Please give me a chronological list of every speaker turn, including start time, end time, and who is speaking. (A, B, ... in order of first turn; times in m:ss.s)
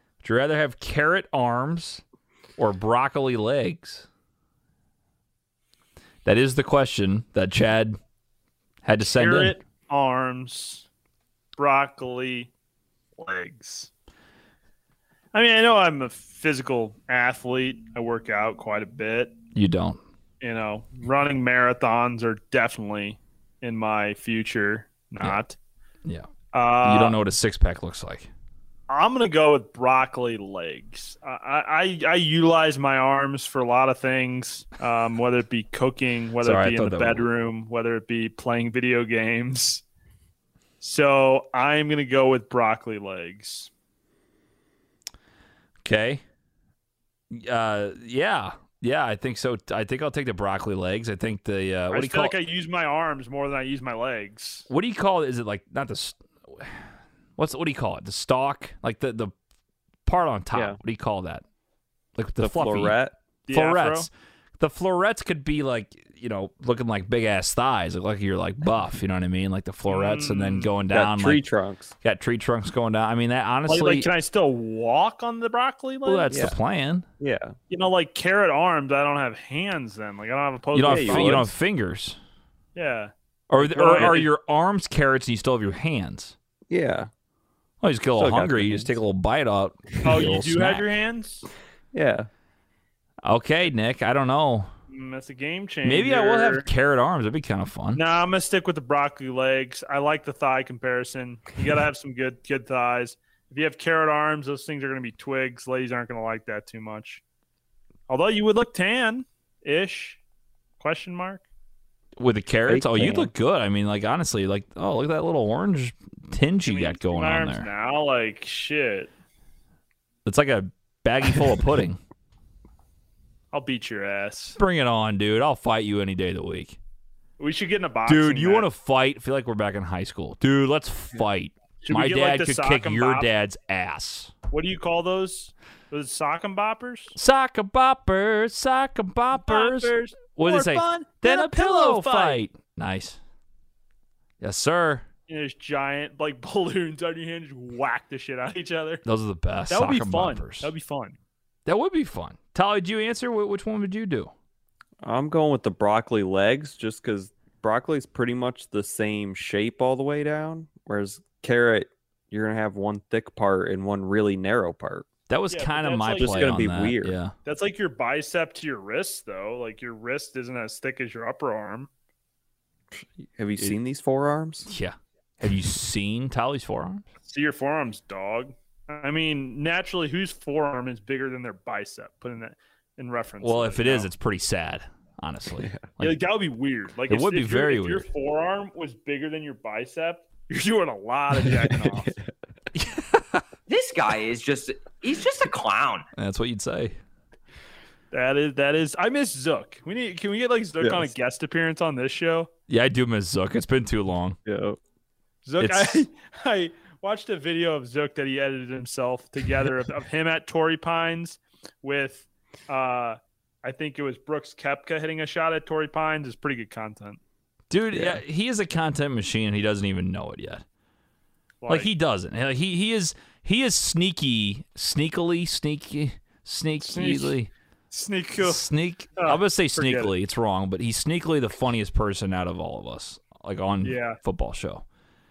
0:00.2-0:02.0 A
0:02.6-0:04.1 A
0:06.2-0:08.0 A
0:08.8-0:09.6 A
0:09.0-0:10.9 B
0:11.6-0:12.5 B
0:13.2-0:13.9 B
0:15.3-0:19.3 B
0:19.6-0:20.0 A
0:20.4-0:25.6 B
0:26.5-0:27.2 B
0:26.8-0:28.3 A
0:28.9-0:39.8 B
0:36.4-0:37.3 A
0:40.8-0:43.7 B
0:45.8-0:46.2 A
0:47.3-0:52.3 A
0:51.9-0:54.7 B
0:54.7-0:56.8 A
0:57.4-0:59.3 A
1:00.1-1:01.4 A
1:02.2-1:03.0 A
1:02.4-1:03.1 C
1:03.5-1:04.1 B
1:03.5-1:11.4 A
1:09.9-1:10.7 B
1:10.9-1:11.9 C
1:12.0-1:14.1 A
1:13.7-1:16.3 B
1:16.0-1:17.0 A
1:16.3-1:16.6 C
1:17.2-1:17.6 C
1:17.7-1:21.5 B
1:20.7-1:22.2 A
1:20.8-1:21.5 C
1:22.7-1:24.3 B
1:23.5-1:26.4 A
1:23.6-1:24.2 C
1:26.7-1:27.1 C
1:27.8-1:30.8 A
1:28.2-1:29.0 C
1:30.0-1:31.5 B
1:31.9-1:32.3 C
1:33.2-1:34.7 A
1:34.9-1:36.7 B
1:35.8-1:38.0 A
1:38.0-1:47.2 B
1:48.1-1:50.2 B
1:50.8-1:51.4 B
1:52.2-1:57.7 A
1:52.7-1:53.3 C
1:56.6-1:59.1 B
2:00.2-2:02.0 A
2:03.5-2:04.6 B
2:04.6-2:06.8 A
2:07.4-2:08.7 B
2:08.1-2:14.3 A
2:11.8-2:13.3 B
2:14.5-2:17.2 B
2:17.2-2:23.2 A
2:19.3-2:22.4 B
2:24.4-2:25.0 A
2:25.3-2:29.0 B
2:29.0-2:30.7 A
2:29.7-2:31.2 B
2:31.7-2:34.3 A
2:35.0-2:45.1 C
2:45.3-2:47.3 A
2:45.5-2:46.5 B
2:46.2-2:47.2 C
2:47.4-2:51.9 B
2:53.0-2:54.7 C
2:54.7-2:57.0 A
2:57.2-3:04.1 B
3:03.4-3:06.2 A
3:06.0-3:12.2 B
3:07.1-3:08.0 A
3:11.6-3:12.3 C
3:12.7-3:13.4 A
3:13.7-3:16.1 D
3:16.2-3:17.0 A
3:18.1-3:22.5 B
3:20.8-3:21.1 C
3:22.7-3:24.4 A
3:24.4-3:24.8 C
3:25.4-3:37.2 B
3:25.6-3:26.1 A
3:37.7-3:40.6 A
3:37.9-3:38.2 C
3:41.6-3:41.9 B
3:41.7-3:47.5 A
3:46.8-3:47.4 B
3:47.9-3:48.7 B
3:48.4-3:54.8 A
3:49.2-3:50.1 B
3:53.8-3:54.2 B